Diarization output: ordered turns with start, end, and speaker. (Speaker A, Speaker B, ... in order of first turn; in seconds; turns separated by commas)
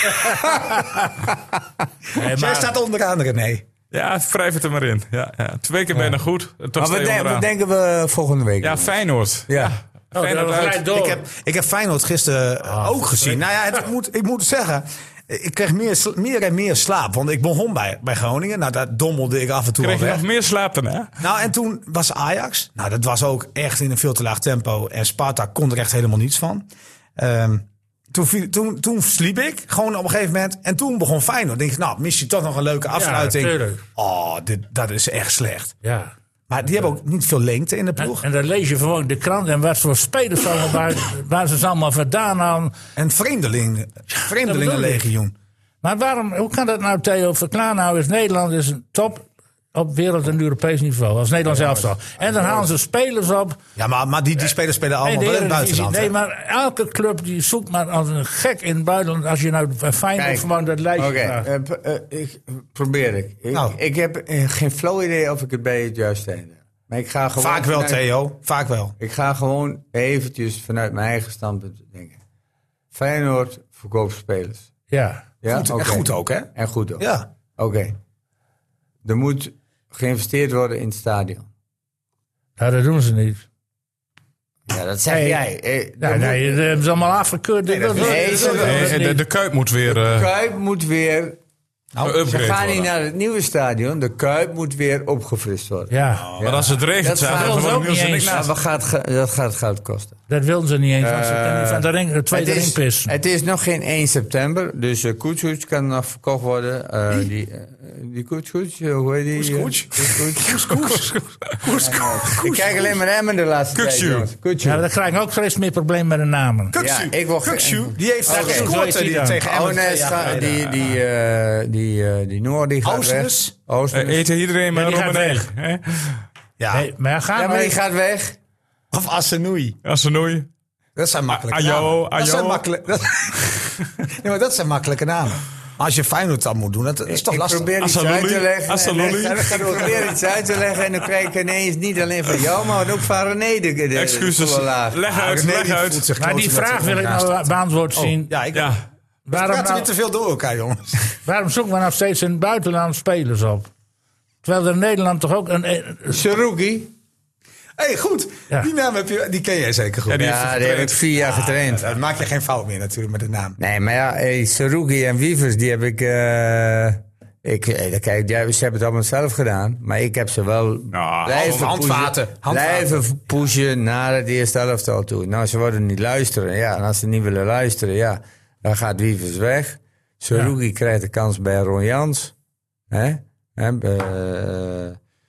Speaker A: 0.2-1.1, Speaker A: 2.1-2.7, Speaker B: 2.1-3.6, Speaker C: 3.9-7.5, Speaker D: 6.8-9.0, Speaker C: 8.6-10.9, Speaker D: 9.5-9.8, Speaker A: 10.1-11.2, Speaker B: 10.9-20.2, Speaker A: 12.7-13.4, Speaker C: 19.8-21.1, Speaker B: 21.2-26.7, Speaker B: 27.2-35.7, Speaker A: 32.9-33.8, Speaker A: 35.8-36.1, Speaker B: 36.5-38.2, Speaker A: 38.0-42.7, Speaker B: 43.0-45.3, Speaker A: 44.2-45.0, Speaker A: 45.8-53.6, Speaker D: 51.5-52.7, Speaker B: 53.8-56.1, Speaker A: 55.0-61.5, Speaker D: 60.2-68.0, Speaker B: 63.5-63.8, Speaker B: 67.4-69.0, Speaker D: 69.0-72.2, Speaker D: 72.9-74.7, Speaker A: 74.9-75.2, Speaker D: 75.4-77.0, Speaker B: 75.5-77.3, Speaker D: 77.6-78.0, Speaker D: 79.0-81.5, Speaker A: 82.6-83.4, Speaker D: 84.7-86.7, Speaker A: 85.1-85.4, Speaker A: 86.0-89.2, Speaker B: 87.7-88.9, Speaker D: 88.0-88.9, Speaker C: 88.6-90.3, Speaker D: 89.8-91.4, Speaker B: 92.0-92.2, Speaker C: 92.0-92.9, Speaker D: 92.2-100.2, Speaker A: 95.9-96.3, Speaker B: 96.1-96.7, Speaker C: 96.4-98.5, Speaker A: 97.3-98.4, Speaker A: 100.3-103.2, Speaker D: 101.0-111.0, Speaker B: 109.3-113.0, Speaker D: 111.7-114.9, Speaker C: 113.8-114.3, Speaker A: 114.6-116.7, Speaker B: 116.7-120.6, Speaker D: 116.8-118.8, Speaker A: 118.3-120.7, Speaker D: 119.5-124.2, Speaker B: 122.8-123.5, Speaker C: 123.9-126.2, Speaker A: 124.7-125.5, Speaker B: 126.6-126.9, Speaker A: 126.7-127.8, Speaker D: 127.3-128.4, Speaker B: 128.9-129.8, Speaker C: 129.8-130.5, Speaker B: 131.0-133.5, Speaker C: 131.3-132.7, Speaker B: 134.1-137.7, Speaker D: 137.1-145.1, Speaker C: 137.8-139.9, Speaker B: 139.2-139.9, Speaker C: 143.9-146.1, Speaker B: 145.1-147.4, Speaker A: 146.2-148.3, Speaker B: 148.0-148.8, Speaker C: 148.5-148.8, Speaker A: 149.3-149.9, Speaker B: 149.3-151.1, Speaker A: 151.2-153.7, Speaker A: 154.4-156.2, Speaker D: 156.1-156.9, Speaker B: 157.8-160.3, Speaker C: 160.1-161.1, Speaker D: 160.2-161.9, Speaker B: 161.3-163.6, Speaker D: 163.6-182.3, Speaker C: 170.9-171.7, Speaker B: 171.3-173.1, Speaker D: 182.9-185.0